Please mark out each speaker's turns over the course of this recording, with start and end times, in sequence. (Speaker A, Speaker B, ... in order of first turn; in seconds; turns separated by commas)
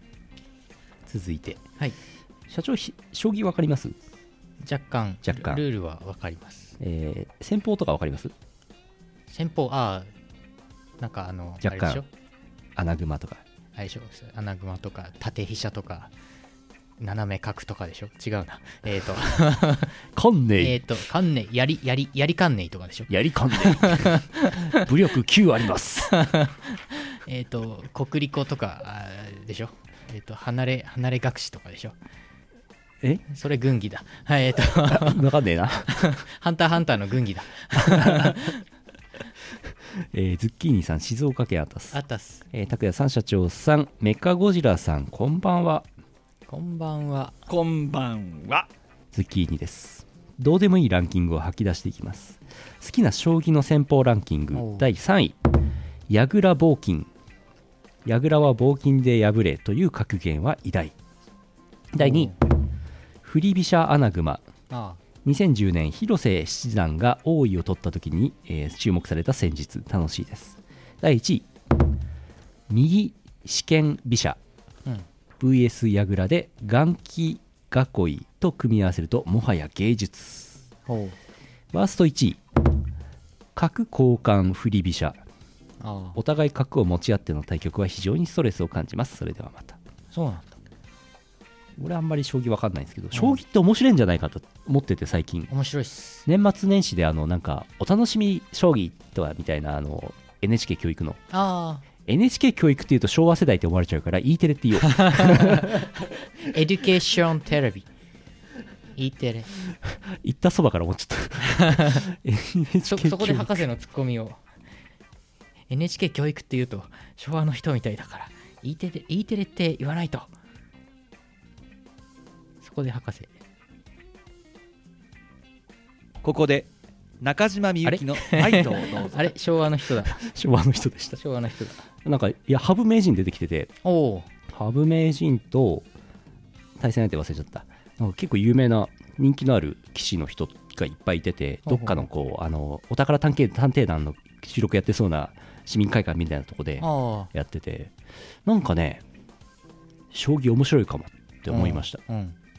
Speaker A: 1.1-1.6, Speaker A: 2.5-4.0, Speaker B: 4.6-6.8, Speaker A: 5.2-5.6, Speaker A: 6.8-8.3, Speaker B: 9.3-10.1, Speaker B: 11.0-12.1, Speaker A: 11.6-12.0, Speaker A: 12.8-13.4, Speaker B: 13.8-16.1, Speaker B: 17.0-20.0, Speaker A: 20.1-20.8, Speaker B: 20.6-24.6, Speaker A: 23.1-26.2, Speaker B: 26.1-32.0, Speaker B: 33.3-35.3, Speaker A: 34.9-36.1, Speaker B: 35.9-38.6, Speaker A: 37.8-38.4, Speaker A: 40.0-42.0, Speaker B: 41.9-42.5, Speaker A: 42.5-45.9, Speaker B: 46.5-47.5, Speaker C: 47.5-48.7, Speaker A: 49.1-55.4, Speaker B: 54.5-54.9, Speaker A: 56.1-57.1, Speaker A: 58.0-61.0, Speaker A: 61.9-62.3, Speaker B: 62.0-62.4, Speaker A: 63.2-64.5, Speaker B: 64.7-65.0, Speaker A: 65.2-71.5, Speaker A: 72.7-74.4, Speaker A: 75.4-80.6, Speaker B: 80.9-81.2, Speaker A: 81.7-82.4, Speaker A: 83.5-85.2, Speaker B: 85.8-86.2, Speaker A: 86.2-89.8, Speaker B: 90.1-90.6, Speaker A: 91.8-95.5, Speaker B: 93.1-93.4, Speaker B: 95.5-96.3, Speaker A: 96.3-101.2, Speaker B: 101.3-101.9, Speaker A: 102.1-105.8, Speaker B: 105.0-105.8, Speaker B: 106.4-107.9, Speaker B: 109.0-109.5, Speaker A: 110.2-113.6, Speaker B: 112.8-114.4, Speaker B: 115.7-120.3, Speaker B: 122.6-123.3, Speaker C: 126.2-126.7, Speaker C: 127.2-129.2, Speaker B: 127.8-130.2, Speaker A: 130.1-131.2, Speaker B: 131.2-131.8, Speaker A: 132.0-133.7, Speaker B: 133.8-134.3, Speaker A: 134.5-135.9, Speaker A: 136.8-147.9, Speaker B: 141.7-142.0, Speaker B: 146.8-147.3, Speaker A: 148.4-149.0, Speaker A: 150.1-152.0, Speaker B: 151.5-152.4